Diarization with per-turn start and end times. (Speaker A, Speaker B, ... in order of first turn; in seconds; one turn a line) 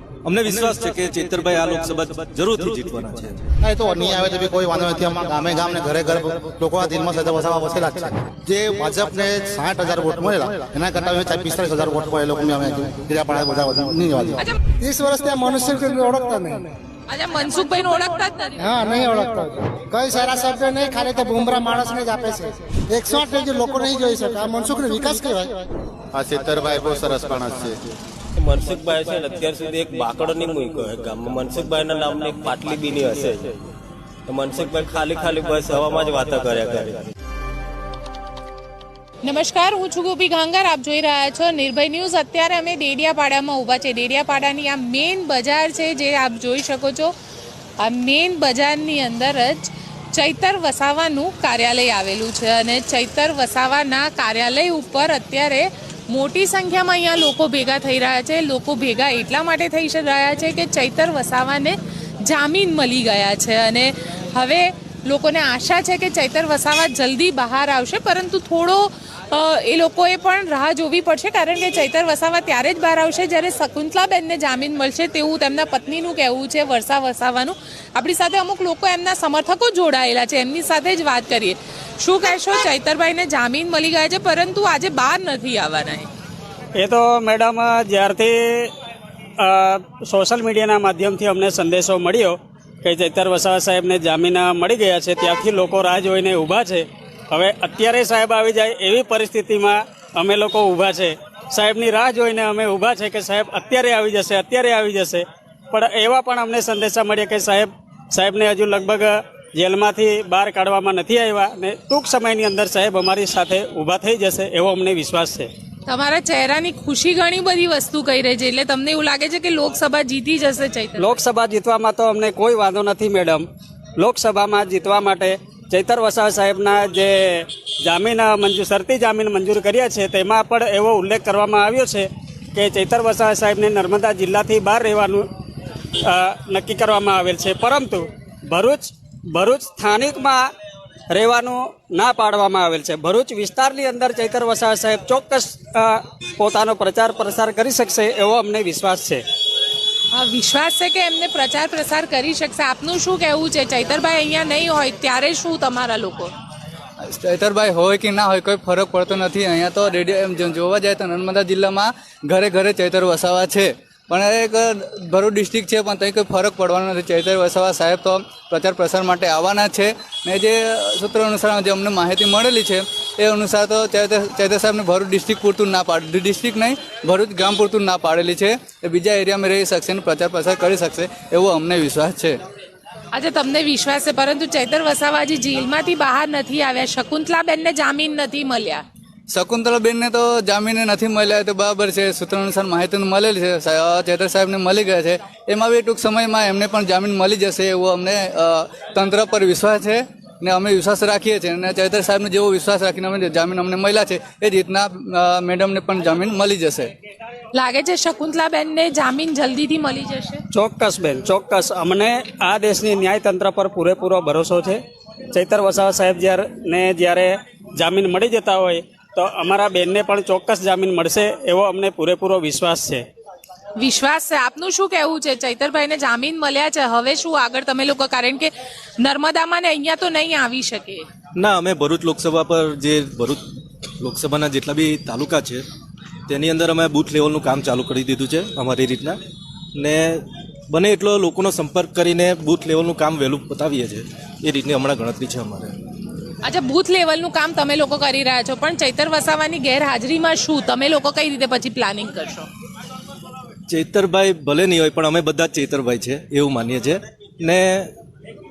Speaker A: 0.2-3.5
Speaker B: 3.6-14.4
Speaker C: 14.8-16.7
Speaker D: 17.1-19.0
Speaker C: 18.6-25.6
Speaker B: 26.1-27.9
Speaker E: 28.4-33.6
Speaker E: 34.3-37.0
Speaker D: 39.2-47.1
Speaker D: 47.8-86.1
Speaker F: 86.8-88.3
Speaker F: 89.4-92.3
Speaker F: 92.8-96.8
Speaker F: 97.3-105.2
Speaker F: 105.7-115.5
Speaker D: 115.9-121.2
Speaker F: 121.0-123.4
Speaker F: 124.0-127.2
Speaker F: 127.8-135.2
Speaker F: 136.1-140.4
Speaker F: 141.1-149.2
Speaker D: 150.1-156.3
Speaker G: 157.0-182.3
Speaker D: 183.1-188.8
Speaker G: 189.3-206.9
Speaker D: 207.5-210.4
Speaker F: 210.6-214.8
Speaker F: 215.3-223.0
Speaker D: 223.8-228.5
Speaker D: 229.0-231.0
Speaker A: 231.3-233.4
Speaker A: 234.0-235.7
Speaker A: 236.3-239.2
Speaker A: 239.7-245.7
Speaker D: 246.4-252.5
Speaker A: 253.7-257.9